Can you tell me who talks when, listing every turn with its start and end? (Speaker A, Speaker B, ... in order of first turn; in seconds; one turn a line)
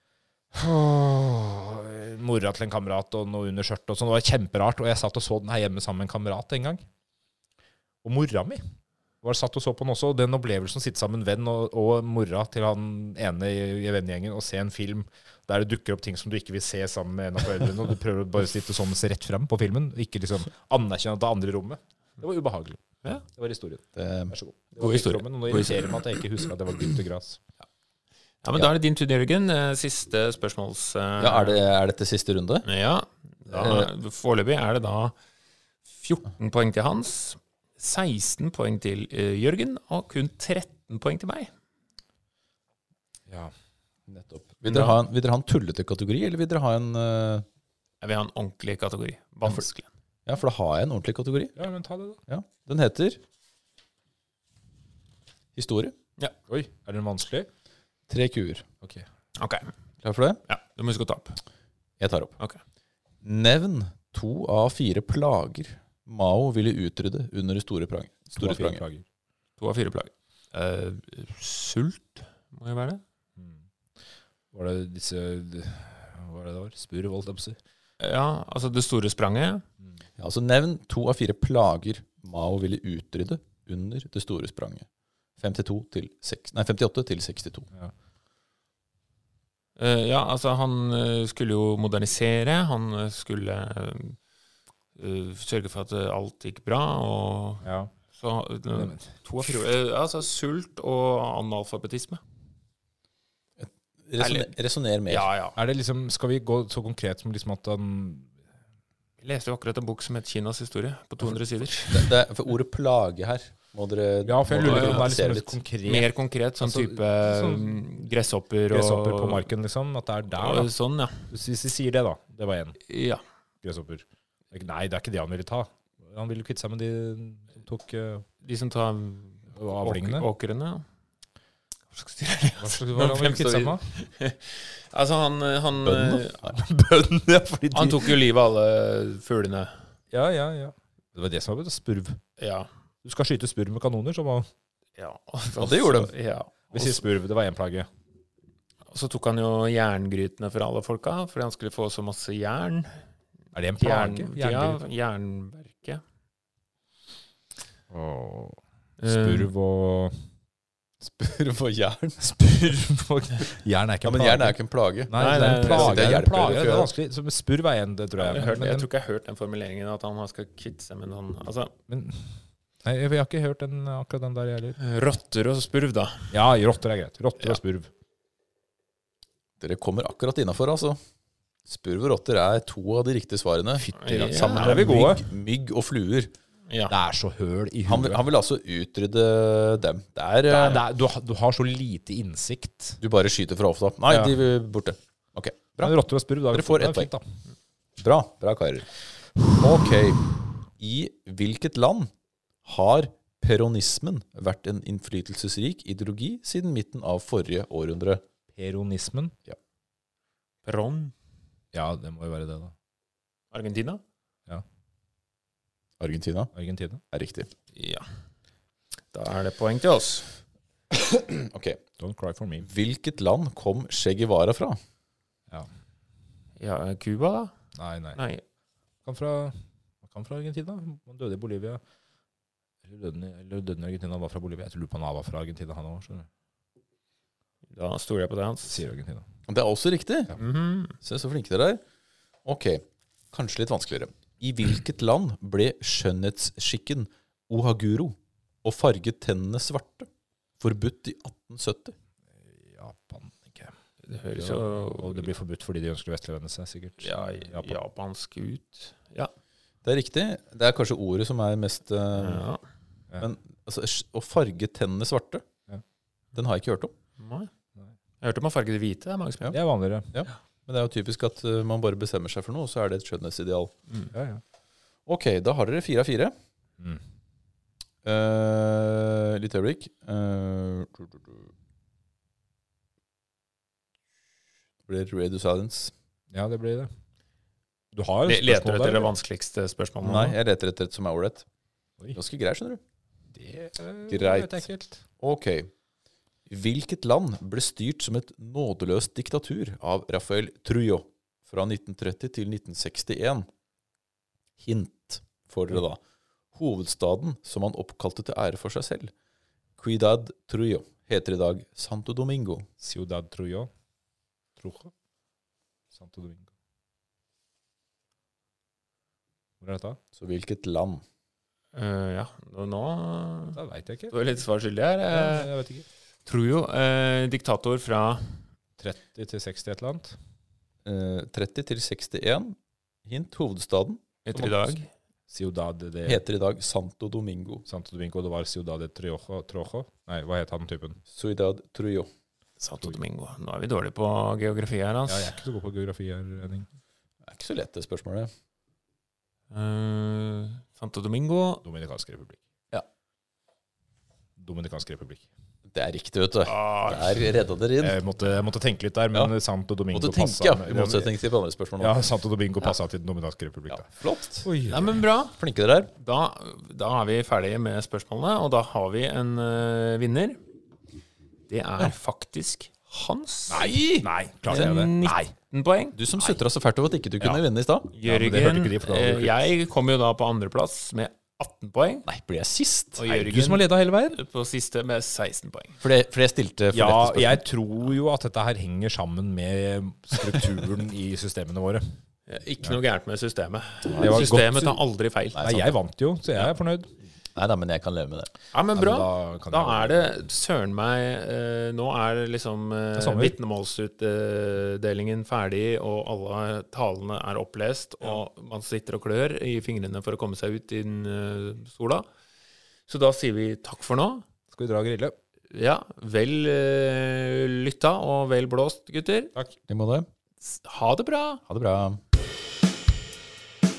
Speaker A: 0.5-6.8
Speaker A: 8.0-8.6
Speaker A: 9.2-27.4
Speaker B: 23.9-24.4
Speaker C: 24.8-25.8
Speaker C: 28.4-31.6
Speaker B: 31.2-32.6
Speaker C: 32.6-35.1
Speaker B: 33.5-33.9
Speaker C: 35.9-41.5
Speaker A: 43.3-43.5
Speaker B: 44.1-47.4
Speaker C: 44.6-45.0
Speaker C: 48.0-49.9
Speaker B: 50.2-51.6
Speaker A: 51.6-52.2
Speaker B: 52.3-53.2
Speaker B: 55.5-55.9
Speaker A: 56.5-57.5
Speaker B: 58.1-58.7
Speaker C: 59.4-59.7
Speaker B: 60.0-60.4
Speaker C: 60.5-61.4
Speaker B: 62.0-62.4
Speaker B: 63.2-68.8
Speaker A: 68.4-69.0
Speaker C: 69.6-73.0
Speaker A: 74.5-77.6
Speaker C: 78.0-79.6
Speaker B: 80.2-84.8
Speaker B: 85.4-87.7
Speaker C: 89.8-94.2
Speaker C: 95.0-102.2
Speaker A: 97.6-97.9
Speaker A: 98.7-99.0
Speaker B: 103.6-105.3
Speaker C: 104.2-104.5
Speaker C: 105.1-105.6
Speaker A: 105.5-108.3
Speaker C: 109.2-112.1
Speaker B: 111.9-115.6
Speaker A: 114.2-117.8
Speaker C: 114.6-115.1
Speaker C: 115.8-119.5
Speaker A: 118.7-120.7
Speaker C: 120.3-121.3
Speaker A: 121.3-122.8
Speaker C: 122.9-123.2
Speaker A: 123.6-128.2
Speaker C: 128.4-130.8
Speaker A: 129.5-130.3
Speaker C: 131.9-136.4
Speaker A: 132.6-133.8
Speaker B: 135.8-136.6
Speaker A: 136.5-138.2
Speaker C: 137.7-139.8
Speaker A: 140.1-142.2
Speaker C: 142.4-142.7
Speaker A: 143.0-144.5
Speaker C: 145.0-147.0
Speaker B: 145.5-146.1
Speaker A: 146.7-147.9
Speaker C: 148.9-153.0
Speaker A: 153.5-154.8
Speaker C: 153.8-156.0
Speaker A: 157.9-160.2
Speaker C: 159.0-159.5
Speaker B: 161.0-162.2
Speaker A: 162.2-164.6
Speaker B: 164.0-166.9
Speaker A: 165.1-168.9
Speaker C: 165.2-166.3
Speaker C: 168.2-171.7
Speaker A: 171.9-174.8
Speaker C: 174.8-176.3
Speaker A: 176.3-177.9
Speaker B: 179.6-181.0
Speaker B: 181.7-186.3
Speaker A: 183.8-185.3
Speaker C: 184.0-184.8
Speaker A: 186.9-188.2
Speaker B: 187.8-190.8
Speaker A: 190.5-193.0
Speaker B: 193.0-195.9
Speaker A: 194.1-194.3
Speaker A: 195.8-197.2
Speaker B: 196.5-197.1
Speaker B: 198.0-198.9
Speaker B: 199.4-202.1
Speaker B: 202.6-208.2
Speaker A: 208.5-209.3
Speaker C: 210.6-211.1
Speaker A: 211.7-212.7
Speaker C: 213.5-214.0
Speaker B: 216.0-216.5
Speaker A: 216.5-217.0
Speaker B: 217.1-217.5
Speaker C: 217.7-218.1
Speaker C: 219.1-220.3
Speaker B: 220.9-221.8
Speaker A: 222.0-222.7
Speaker B: 222.6-224.8
Speaker C: 226.6-227.5
Speaker A: 227.7-228.2
Speaker C: 228.1-228.4
Speaker A: 229.0-231.8
Speaker A: 232.8-236.3
Speaker C: 237.7-238.8
Speaker A: 238.6-239.3
Speaker B: 239.5-240.3
Speaker C: 240.3-240.9
Speaker B: 241.0-241.8
Speaker B: 242.4-250.1
Speaker B: 250.6-251.9
Speaker A: 252.4-253.7
Speaker C: 254.0-255.3
Speaker A: 254.4-257.7
Speaker C: 257.0-259.3
Speaker B: 259.8-262.5
Speaker C: 262.1-262.6
Speaker B: 263.2-265.4
Speaker B: 266.3-266.9
Speaker C: 267.2-267.5
Speaker C: 268.2-269.6
Speaker A: 269.5-270.1
Speaker B: 270.1-273.7
Speaker A: 274.1-274.4
Speaker B: 275.1-276.3
Speaker B: 278.0-281.5
Speaker B: 284.9-285.9
Speaker A: 286.3-286.9
Speaker A: 287.9-289.1
Speaker C: 288.2-290.4
Speaker B: 290.0-291.4
Speaker B: 292.1-292.8
Speaker A: 293.3-295.0
Speaker B: 294.1-294.6
Speaker B: 295.2-295.7
Speaker B: 296.5-303.5
Speaker B: 304.6-306.0
Speaker B: 306.5-309.1
Speaker B: 309.8-312.7
Speaker A: 312.8-313.7
Speaker A: 314.6-314.9
Speaker A: 315.9-316.5
Speaker A: 319.6-320.0
Speaker B: 320.1-321.0
Speaker C: 321.7-323.6
Speaker A: 323.6-324.3
Speaker C: 324.1-325.5
Speaker A: 325.1-325.9
Speaker C: 326.2-328.4
Speaker A: 328.8-330.1
Speaker B: 330.8-334.8
Speaker C: 334.2-334.9
Speaker A: 335.3-336.2
Speaker B: 336.0-337.6
Speaker A: 337.7-341.0
Speaker B: 341.1-342.1
Speaker C: 342.6-345.4
Speaker A: 345.1-346.7
Speaker B: 347.2-348.3
Speaker C: 349.5-351.6
Speaker A: 351.6-352.4
Speaker A: 354.4-355.2
Speaker B: 355.7-358.0
Speaker C: 356.4-357.3
Speaker A: 357.8-361.1
Speaker B: 359.9-362.0
Speaker A: 361.8-363.9
Speaker B: 363.7-364.5
Speaker A: 364.4-364.9
Speaker C: 364.7-365.4
Speaker B: 365.4-365.9
Speaker C: 365.9-370.4
Speaker C: 371.5-375.9
Speaker A: 373.5-375.3
Speaker B: 375.9-377.9
Speaker C: 377.9-382.1
Speaker A: 378.0-379.5
Speaker B: 382.1-383.0
Speaker C: 383.0-385.8
Speaker A: 383.1-384.2
Speaker B: 385.8-387.4
Speaker A: 386.7-391.8
Speaker C: 392.3-395.7
Speaker B: 393.9-394.3
Speaker A: 394.0-394.8
Speaker B: 395.4-395.7
Speaker A: 395.4-396.9
Speaker B: 397.3-398.3
Speaker C: 398.5-412.1
Speaker A: 398.7-400.1
Speaker A: 402.9-403.3
Speaker C: 412.9-414.2
Speaker A: 414.5-415.1
Speaker C: 415.5-419.3
Speaker B: 419.7-420.1
Speaker C: 420.4-421.4
Speaker B: 421.5-422.0